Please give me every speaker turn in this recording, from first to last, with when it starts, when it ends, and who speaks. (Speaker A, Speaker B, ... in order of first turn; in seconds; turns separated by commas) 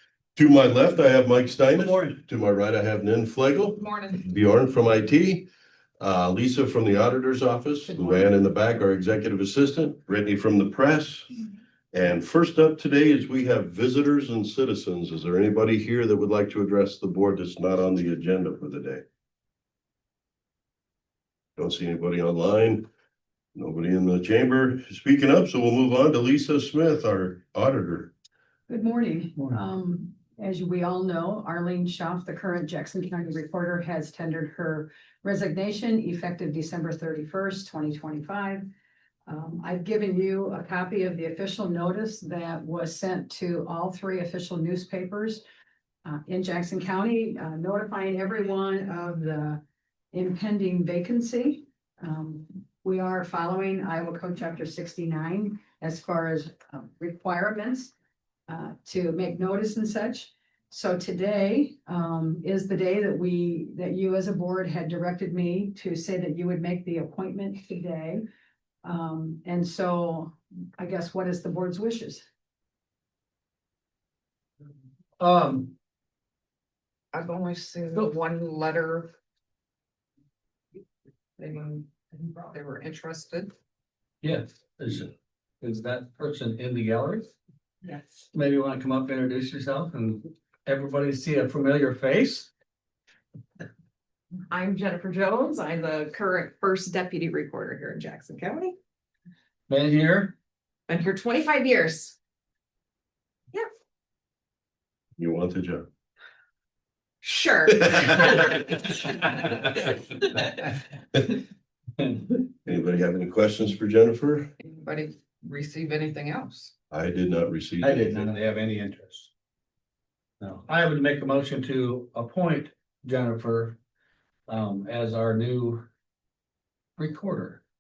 Speaker A: 0.4-5.5, Speaker B: 3.8-4.2, Speaker A: 6.0-11.3, Speaker A: 11.9-19.0, Speaker A: 21.6-22.9, Speaker A: 23.6-28.1, Speaker C: 28.7-38.7, Speaker C: 39.3-45.4, Speaker C: 46.0-49.6, Speaker C: 50.1-57.9, Speaker C: 58.5-68.2, Speaker C: 68.8-72.3, Speaker D: 75.2-75.7, Speaker B: 77.1-79.1, Speaker B: 81.4-83.5, Speaker D: 84.2-87.3, Speaker B: 87.8-88.2, Speaker D: 88.3-92.5, Speaker B: 94.5-98.8, Speaker D: 99.7-100.3, Speaker B: 100.9-102.2, Speaker A: 105.2-105.9, Speaker B: 107.2-109.7, Speaker D: 112.0-112.3, Speaker A: 112.7-114.5, Speaker B: 114.6-116.7, Speaker A: 116.9-118.3, Speaker D: 117.8-119.3, Speaker D: 120.4-123.8, Speaker D: 124.5-125.9, Speaker D: 127.0-127.6